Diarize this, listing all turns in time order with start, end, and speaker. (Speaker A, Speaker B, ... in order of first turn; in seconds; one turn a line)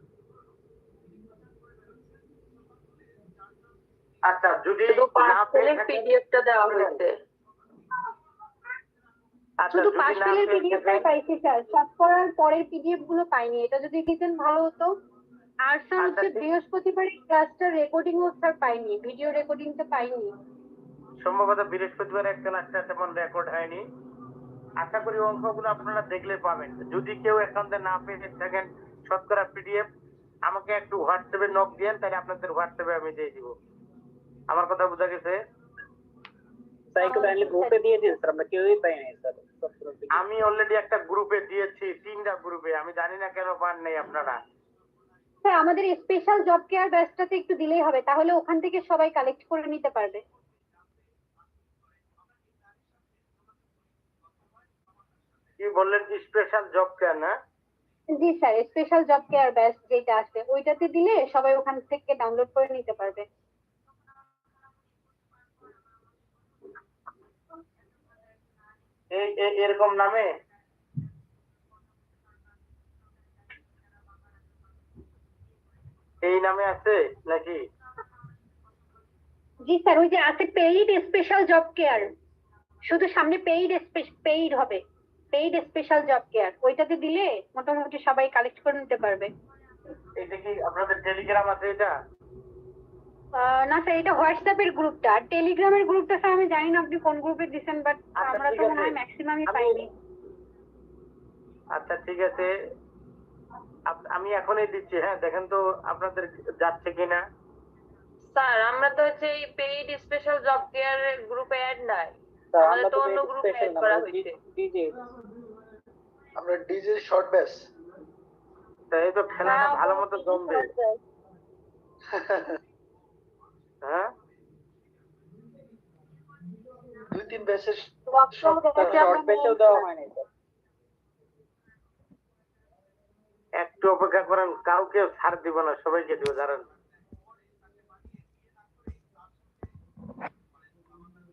Speaker A: 4.3-6.0
Speaker B: 4.9-7.1
Speaker A: 6.6-7.0
Speaker A: 9.6-11.1
Speaker C: 9.7-14.9
Speaker C: 15.7-20.3
Speaker A: 16.0-16.5
Speaker A: 21.2-23.8
Speaker A: 24.8-29.9
Speaker A: 30.5-33.5
Speaker A: 34.5-35.4
Speaker D: 36.9-40.3
Speaker C: 37.0-37.8
Speaker A: 40.1-44.4
Speaker C: 45.4-50.2
Speaker A: 55.6-57.3
Speaker C: 58.1-63.3
Speaker A: 69.1-70.3
Speaker A: 76.2-77.6
Speaker C: 79.7-82.1
Speaker C: 82.9-84.8
Speaker C: 85.3-89.3
Speaker A: 90.2-91.9
Speaker C: 93.3-99.9
Speaker A: 98.2-99.8
Speaker A: 101.7-102.5
Speaker A: 103.9-107.2
Speaker B: 108.3-114.4
Speaker D: 112.5-115.0
Speaker E: 116.4-117.7
Speaker A: 118.9-120.7
Speaker B: 119.4-121.0
Speaker C: 119.4-119.7
Speaker E: 122.1-122.5
Speaker A: 123.8-124.1
Speaker E: 127.1-129.1
Speaker C: 128.4-129.8
Speaker B: 128.5-129.3
Speaker D: 128.7-130.2
Speaker A: 133.6-136.7